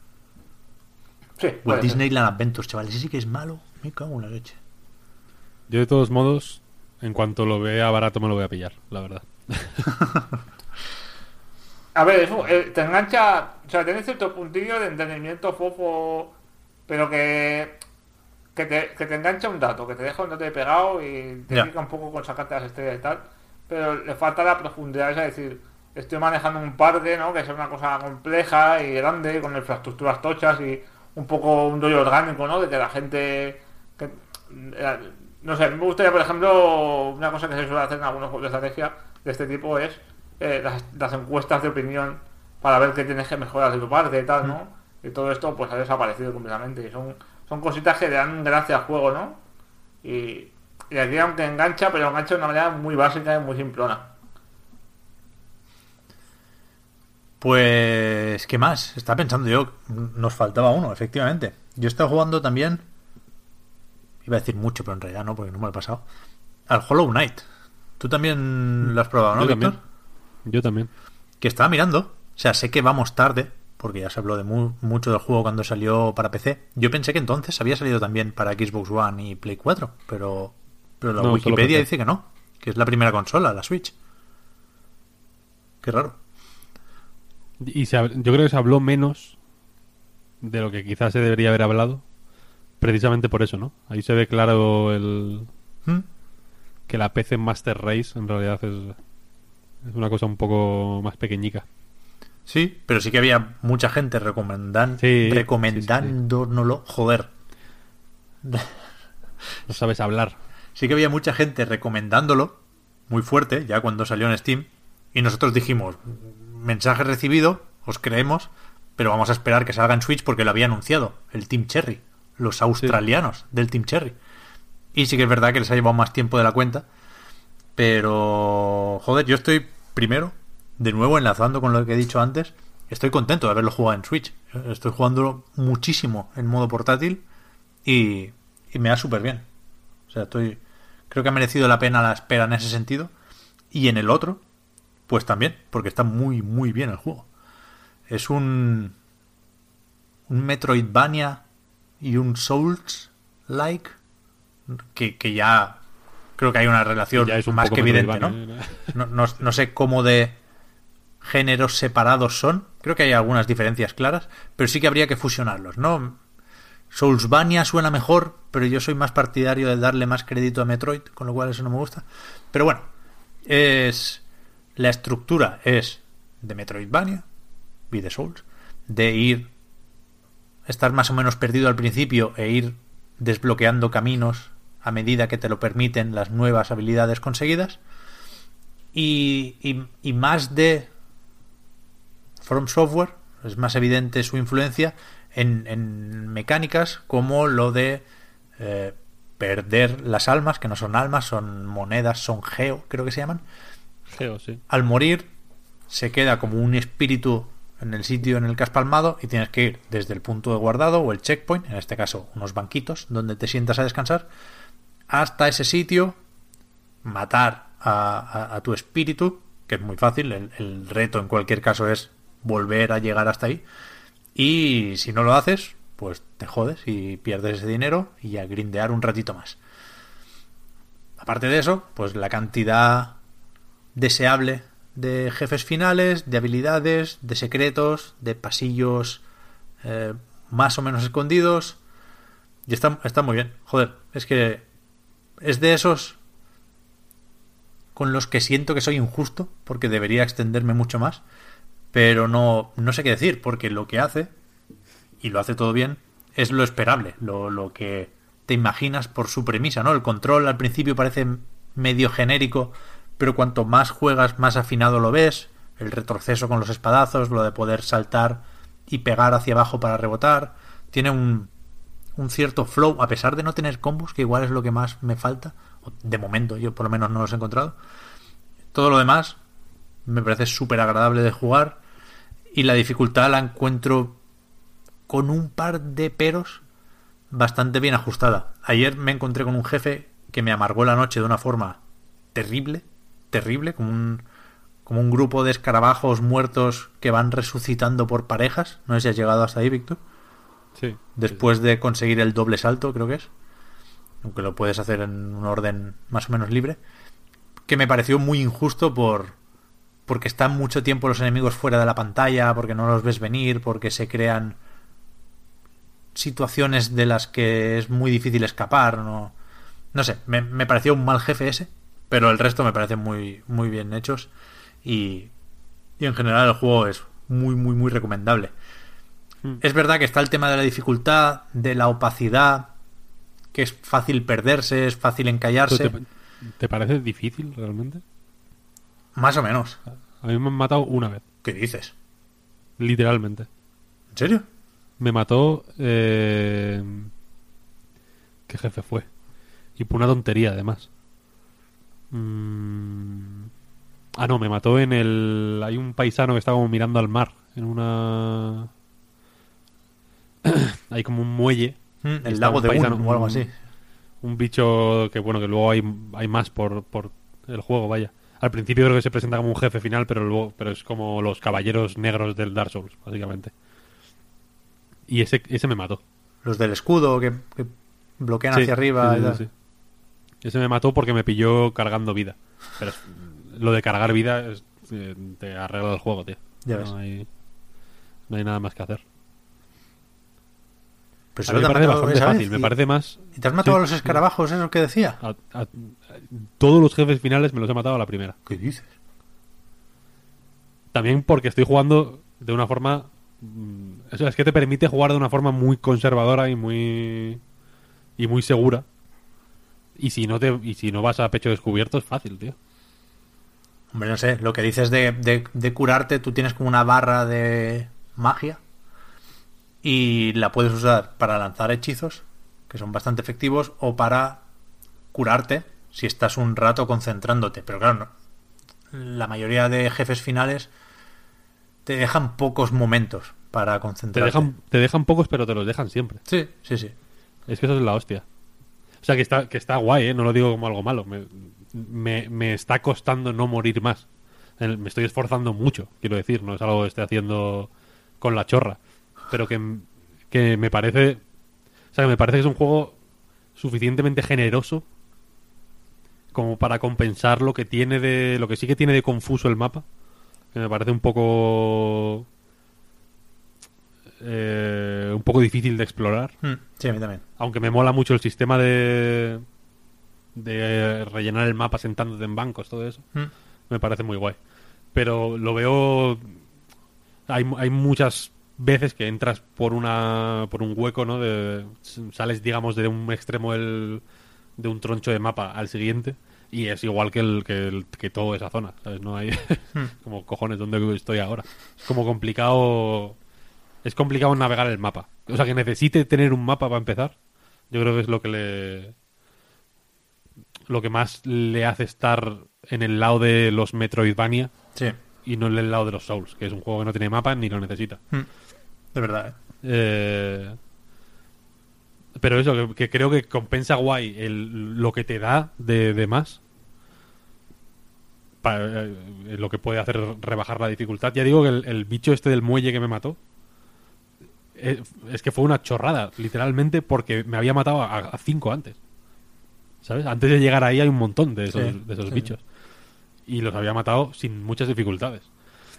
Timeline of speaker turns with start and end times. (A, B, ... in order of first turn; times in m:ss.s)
0:01.4-0:02.0 A
0:01.6-0:04.6 B
0:05.7-0:09.9 C
0:11.9-0:16.3 A
0:16.9-0:17.8 A
0:18.5-0:49.4 A
0:50.0-0:54.1 A
0:57.4-1:02.8 B
1:04.2-1:06.0 B
1:06.7-1:07.4 B
1:08.0-1:09.8 B
1:09.4-1:09.8 C
1:10.4-1:10.9 C
1:11.4-1:23.9 B
1:21.2-1:21.9 C
1:25.8-1:26.2 B
1:27.6-1:29.4 C
1:30.4-1:32.0 C
1:32.8-1:35.5 C
1:36.9-1:39.0 C
1:39.8-1:41.6 C
1:42.5-1:47.3 B
1:45.0-1:46.1 C
1:48.4-1:48.8 B
1:49.7-1:50.4 C
1:50.8-2:04.2 B
2:04.9-2:06.8 B
2:07.8-2:17.2 B
2:17.8-2:19.4 B
2:20.1-2:23.1 B
2:23.7-2:24.4 B
2:25.1-2:27.3 B
2:28.1-2:29.0 B
2:30.3-2:31.4 B
2:32.0-2:34.0 B
2:34.7-2:35.8 B
2:36.4-2:38.4 B
2:37.1-2:38.9 C
2:38.9-2:40.4 B
2:41.2-2:46.2 B
2:46.9-2:52.9 B
2:53.4-2:54.2 B
2:54.8-2:57.2 B
2:57.9-2:59.5 B
3:00.6-3:07.8 B
3:08.9-3:10.9 B
3:12.4-3:18.0 B
3:18.6-3:23.4 B
3:24.1-3:24.6 C
3:24.7-3:25.3 B
3:25.9-3:34.3 B
3:35.1-3:36.2 B
3:37.0-3:43.6 B
3:44.3-3:49.6 B
3:51.2-3:53.2 B
3:53.9-3:59.2 B
3:59.8-4:01.8 B
4:02.7-4:04.6 B
4:05.4-4:06.2 B
4:07.9-4:11.2 B
4:11.9-4:14.3 B
4:15.2-4:31.5 B
4:32.2-4:37.8 B
4:38.7-4:39.4 B
4:40.0-4:41.8 B
4:42.5-4:44.2 B
4:45.1-4:46.6 B
4:47.3-4:51.8 B
4:52.3-4:54.2 B
4:54.8-5:00.0 B
5:00.8-5:01.4 C
5:01.2-5:03.3 B
5:04.2-5:06.8 B
5:07.7-5:09.4 B
5:10.1-5:14.6 B
5:16.1-5:19.3 B
5:19.9-5:24.3 B
5:24.8-5:25.3 B
5:26.0-5:28.5 B
5:29.6-5:32.7 B
5:33.5-5:35.9 B
5:35.7-5:38.0 C
5:39.2-5:39.8 B
5:40.2-5:41.2 C
5:41.4-5:41.9 B
5:42.8-5:43.5 C
5:44.1-5:44.4 B
5:45.0-5:47.1 C
5:48.5-5:49.1 C
5:49.8-5:50.9 C
5:52.1-5:53.5 C
5:54.2-5:58.7 C
6:00.4-6:03.5 C
6:02.0-6:03.5 B
6:04.2-6:13.5 C
6:15.1-6:16.0 C
6:16.4-6:19.4 B
6:18.5-6:19.5 C
6:20.4-6:27.3 C
6:26.6-6:26.9 B
6:28.3-6:29.0 C
6:31.4-6:32.7 B
6:31.5-6:34.2 C
6:33.3-6:35.2 B
6:35.2-6:38.4 C
6:38.5-6:38.9 B
6:40.9-6:47.4 C
6:48.2-6:48.8 C
6:50.0-6:52.6 C
6:53.9-6:58.6 B
6:59.8-7:04.4 B
7:05.1-7:08.1 B
7:08.9-7:10.7 B
7:11.8-7:14.5 B
7:14.1-7:16.2 C
7:16.3-7:16.9 B
7:17.5-7:18.2 C
7:19.0-7:24.0 C
7:24.6-7:27.7 C
7:28.2-7:31.2 C
7:31.9-7:33.0 C
7:33.6-7:34.8 C
7:36.3-7:39.8 C
7:40.5-7:42.2 C
7:44.2-7:46.3 C
7:46.4-7:47.2 B
7:47.4-7:49.4 C
7:50.3-7:53.0 C
7:53.7-7:54.4 C
7:54.9-7:56.4 C
7:57.3-8:04.0 C
8:04.6-8:13.2 C
8:13.8-8:17.1 C
8:17.7-8:18.9 C
8:20.7-8:24.5 C
8:25.2-8:28.0 C
8:28.9-8:29.4 B
8:29.6-8:30.6 C
8:32.2-8:36.4 C
8:38.4-8:43.2 C
8:44.6-8:48.8 C
8:49.8-8:52.4 C
8:51.5-8:52.3 B
8:53.2-8:55.3 C